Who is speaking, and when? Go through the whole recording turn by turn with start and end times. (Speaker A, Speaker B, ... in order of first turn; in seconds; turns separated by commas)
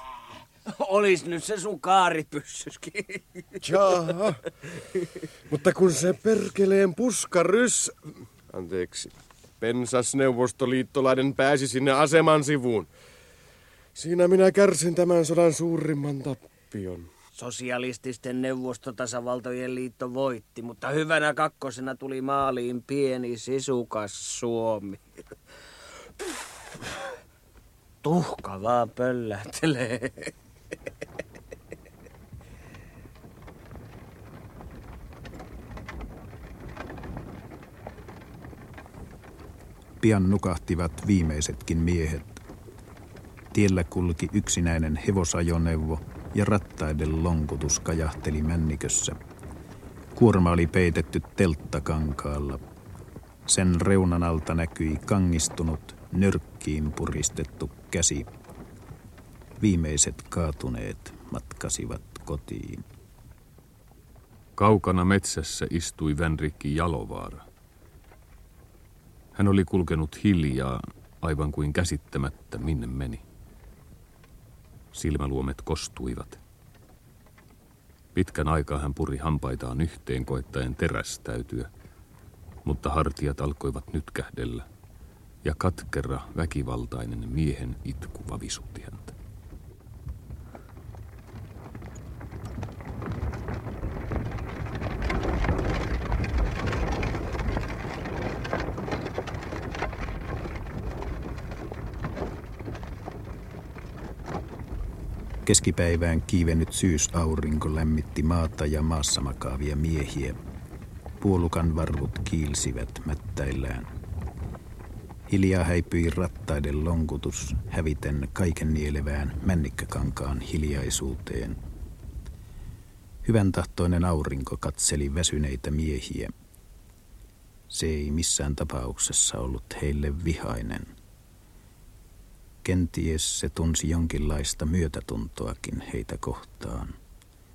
Speaker A: 0.7-3.6, Speaker B: 3.6-4.4, Speaker B: 5.5-8.0, Speaker B: 8.5-12.9, Speaker B: 14.0-17.1, Speaker A: 17.4-25.1, Speaker A: 28.0-30.3, Speaker C: 40.0-42.4, Speaker C: 43.5-49.2, Speaker C: 50.2-52.6, Speaker C: 53.5-58.3, Speaker C: 59.6-62.8, Speaker D: 64.6-67.5, Speaker D: 69.3-73.2, Speaker D: 74.9-76.4, Speaker D: 78.2-81.7, Speaker D: 82.7-84.7, Speaker D: 85.4-89.1, Speaker C: 105.5-110.4, Speaker C: 111.2-113.9, Speaker C: 115.3-121.6, Speaker C: 123.2-126.3, Speaker C: 127.7-130.9, Speaker C: 132.6-137.0